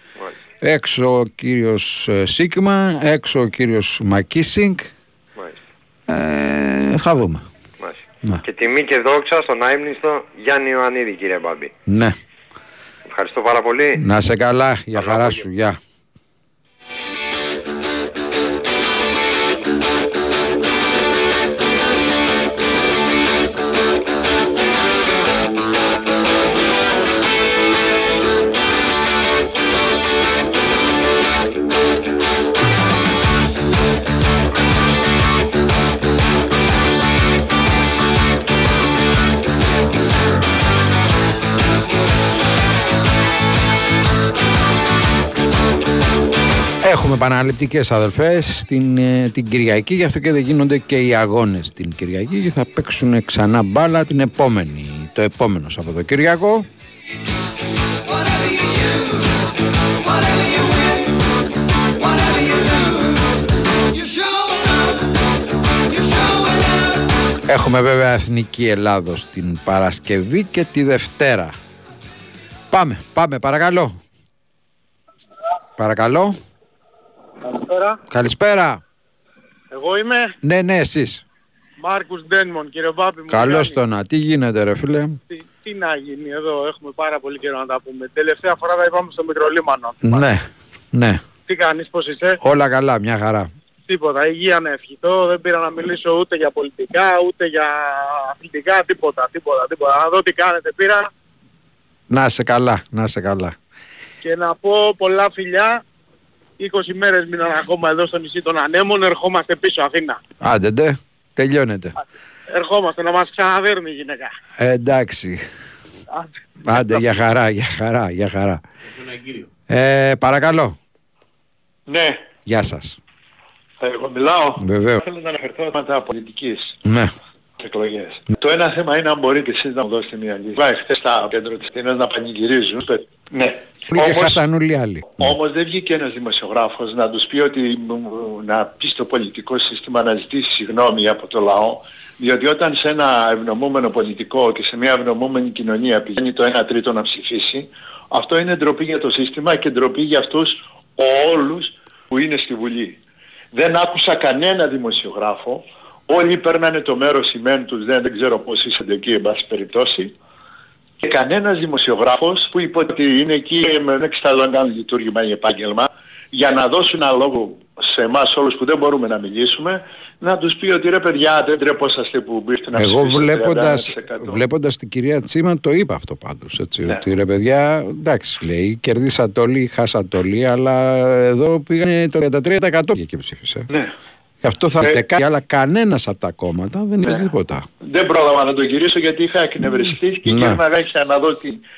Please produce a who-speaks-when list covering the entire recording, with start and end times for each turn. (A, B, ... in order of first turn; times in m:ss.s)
0:00.6-0:04.9 A
0:06.1-0:07.4 A
0:07.8-0:11.7 B
0:11.9-0:12.1 A
0:13.1-0:14.0 B
0:13.9-0:15.8 A
0:15.0-0:15.4 B
0:46.8-0:56.7 A
1:07.4-1:11.6 A
1:12.7-1:14.0 A
1:15.8-1:16.3 A
1:17.5-1:17.9 C
1:18.1-1:18.8 A
1:19.7-1:20.3 C
1:20.4-1:21.2 A
1:21.8-1:23.7 C
1:23.3-1:25.2 A
1:25.6-1:30.2 C
1:30.0-1:31.2 A
1:31.5-1:32.4 C
1:32.4-1:33.5 A
1:33.9-1:41.0 C
1:42.1-1:43.6 A
1:44.2-1:45.7 C
1:46.6-1:50.2 C
1:50.4-1:52.0 A
1:52.5-1:54.3 C
1:54.6-1:55.4 A
1:56.6-1:58.6 A
1:59.7-2:00.8 A
2:01.9-2:02.2 D
2:02.4-2:03.0 A
2:03.8-2:06.7 D
2:04.6-2:05.0 A
2:06.8-2:07.1 A
2:07.6-2:14.4 D
2:13.9-2:15.3 A
2:15.2-2:33.0 D
2:33.5-2:40.1 D
2:41.0-2:54.4 D
2:52.7-3:03.7 A
3:04.4-3:07.6 A
3:07.8-3:11.6 D
3:10.2-3:10.6 A